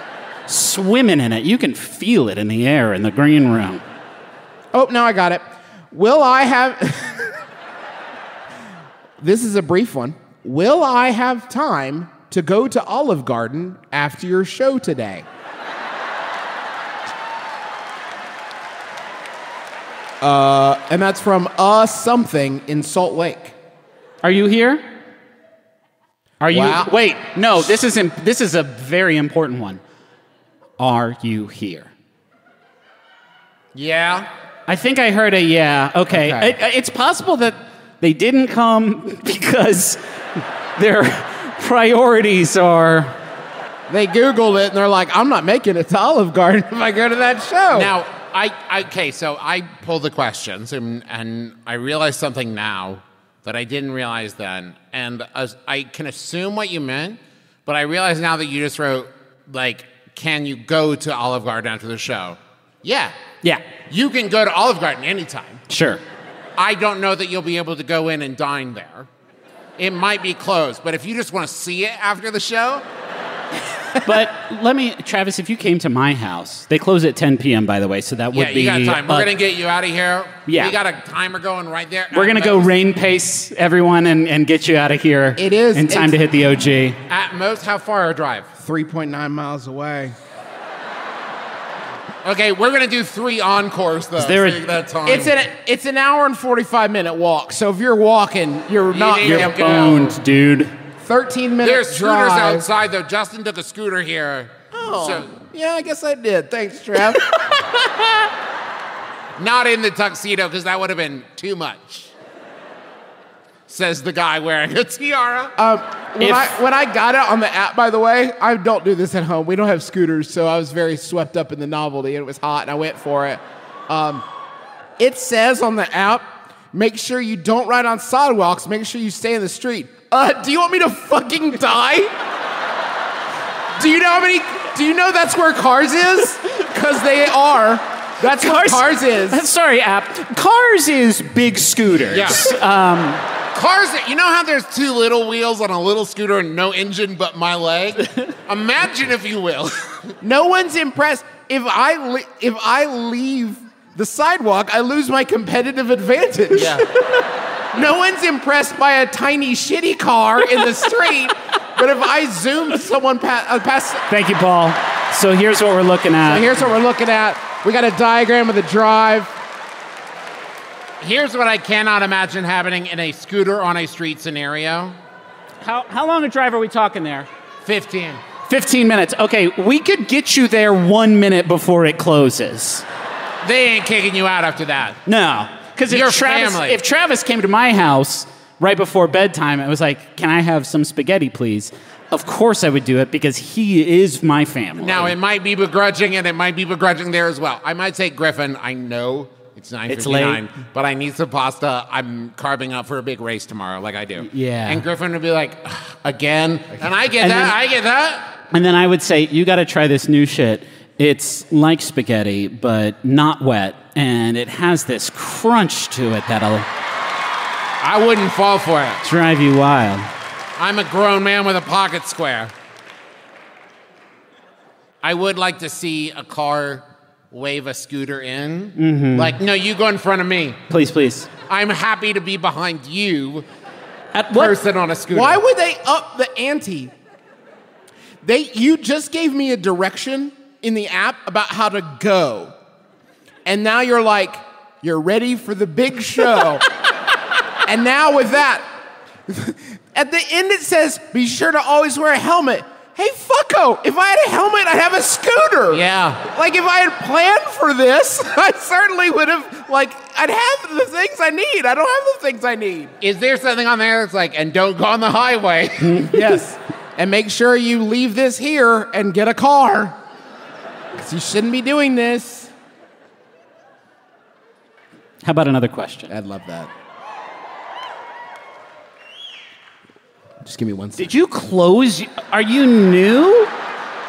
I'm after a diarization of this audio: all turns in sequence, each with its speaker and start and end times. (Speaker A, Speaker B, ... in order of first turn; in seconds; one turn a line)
Speaker A: 0.5-3.8
Speaker B: 4.7-7.3
Speaker B: 9.2-15.2
Speaker B: 20.2-23.6
Speaker A: 24.2-24.9
Speaker A: 26.4-29.8
Speaker B: 26.5-26.9
Speaker A: 30.8-31.9
Speaker C: 33.7-34.3
Speaker A: 34.7-40.0
Speaker B: 36.1-36.5
Speaker A: 40.8-43.1
Speaker B: 43.9-47.9
Speaker C: 47.7-63.1
Speaker C: 63.9-65.6
Speaker A: 65.7-66.0
Speaker C: 66.6-69.1
Speaker C: 69.8-72.8
Speaker A: 74.0-79.3
Speaker C: 78.3-82.7
Speaker A: 80.5-80.7
Speaker A: 82.1-87.0
Speaker B: 85.3-86.2
Speaker C: 87.1-88.5
Speaker B: 88.5-90.1
Speaker C: 92.2-95.3
Speaker A: 94.2-94.7
Speaker B: 95.0-99.8
Speaker C: 98.9-100.2
Speaker A: 99.2-100.7
Speaker B: 101.0-102.7
Speaker C: 101.6-105.3
Speaker B: 104.7-107.8
Speaker C: 109.4-112.1
Speaker C: 113.7-115.5
Speaker B: 115.6-124.2
Speaker A: 116.2-116.5
Speaker B: 125.0-132.1
Speaker B: 133.8-139.4
Speaker A: 138.2-143.2
Speaker C: 142.1-142.6
Speaker C: 143.5-150.1
Speaker B: 150.2-156.8
Speaker C: 156.5-156.9
Speaker B: 157.7-164.1
Speaker A: 164.1-166.5
Speaker B: 166.2-169.3
Speaker C: 171.0-174.9
Speaker A: 175.6-177.3
Speaker C: 177.6-178.2
Speaker A: 178.5-182.8
Speaker C: 183.4-185.0
Speaker A: 185.1-195.1
Speaker C: 185.9-186.8
Speaker C: 194.8-208.3
Speaker A: 199.9-200.4
Speaker A: 204.2-204.8
Speaker A: 207.2-207.6
Speaker A: 208.5-216.7
Speaker C: 217.8-219.0
Speaker A: 219.0-220.1
Speaker C: 220.6-222.5
Speaker C: 225.0-230.6
Speaker A: 228.8-229.3
Speaker A: 230.7-231.3
Speaker C: 231.5-233.4
Speaker A: 234.1-234.5
Speaker C: 234.3-235.4
Speaker B: 235.1-236.9
Speaker B: 238.2-242.6
Speaker B: 243.4-246.6
Speaker B: 247.6-248.7
Speaker B: 249.3-262.9
Speaker C: 255.7-256.2
Speaker C: 263.0-265.9
Speaker A: 265.8-266.4
Speaker B: 266.1-270.0
Speaker B: 271.0-272.5
Speaker A: 275.2-276.1
Speaker B: 276.1-276.7
Speaker B: 280.4-281.1
Speaker A: 281.0-283.5